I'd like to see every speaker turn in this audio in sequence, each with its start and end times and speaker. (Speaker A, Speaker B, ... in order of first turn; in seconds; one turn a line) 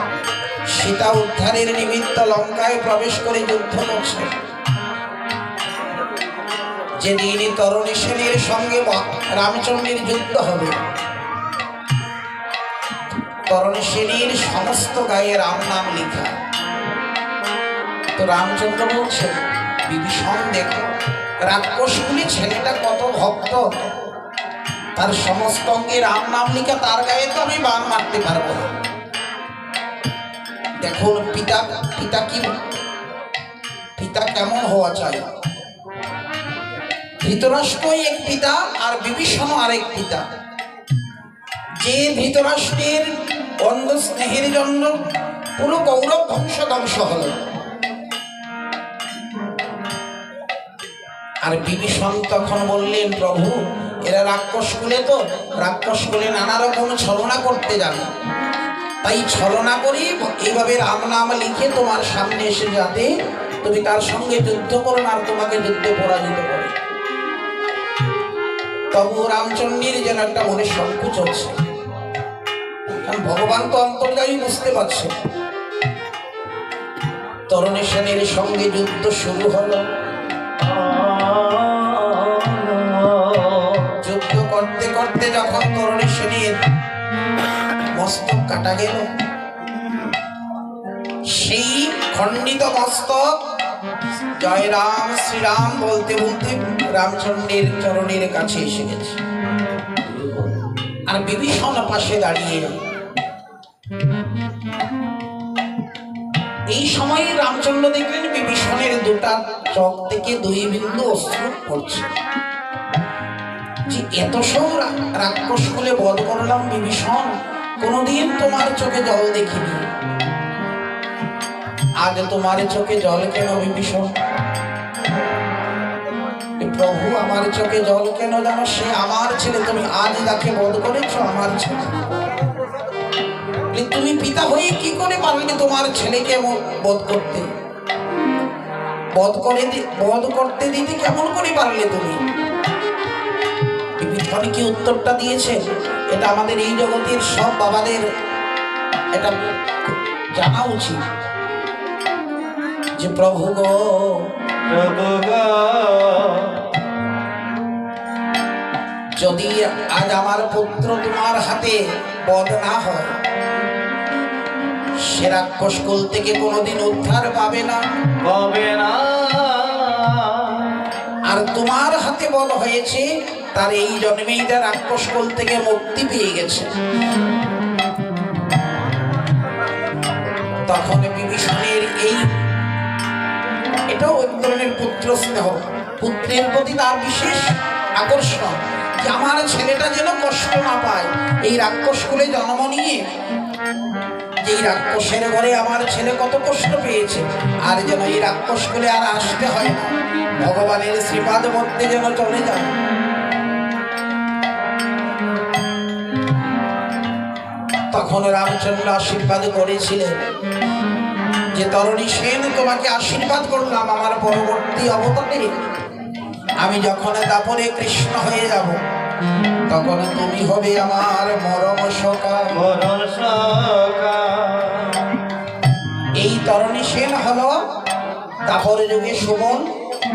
Speaker A: 0.7-4.3
Speaker A: 7.0-10.8
Speaker A: 13.5-16.3
Speaker A: 18.2-19.3
Speaker A: 19.9-20.9
Speaker A: 21.4-23.6
Speaker A: 25.0-28.7
Speaker A: 30.8-32.5
Speaker A: 34.0-35.2
Speaker A: 37.2-40.2
Speaker A: 41.8-44.9
Speaker A: 45.6-47.4
Speaker A: 51.4-58.1
Speaker A: 59.0-63.1
Speaker A: 63.6-66.7
Speaker A: 68.9-71.5
Speaker A: 72.9-75.1
Speaker A: 77.5-79.8
Speaker B: 80.6-84.0
Speaker A: 84.0-86.6
Speaker A: 88.0-89.1
Speaker A: 91.3-93.3
Speaker A: 94.4-99.2
Speaker A: 101.1-102.7
Speaker A: 106.7-112.1
Speaker A: 113.9-119.8
Speaker A: 122.0-124.1
Speaker A: 126.6-131.9
Speaker A: 133.7-137.5
Speaker A: 139.2-142.2
Speaker A: 144.0-145.6
Speaker A: 146.1-148.0
Speaker A: 149.1-149.5
Speaker A: 150.3-151.0
Speaker A: 153.0-154.3
Speaker B: 154.7-156.7
Speaker A: 159.2-163.1
Speaker A: 165.1-167.8
Speaker B: 168.2-170.9
Speaker A: 171.3-176.7
Speaker A: 180.7-182.3
Speaker A: 183.9-193.0
Speaker A: 194.4-202.7
Speaker A: 207.9-210.2
Speaker A: 211.5-215.5
Speaker A: 216.6-218.8
Speaker A: 219.7-222.6
Speaker B: 222.5-225.2
Speaker A: 226.2-227.6
Speaker A: 228.5-229.7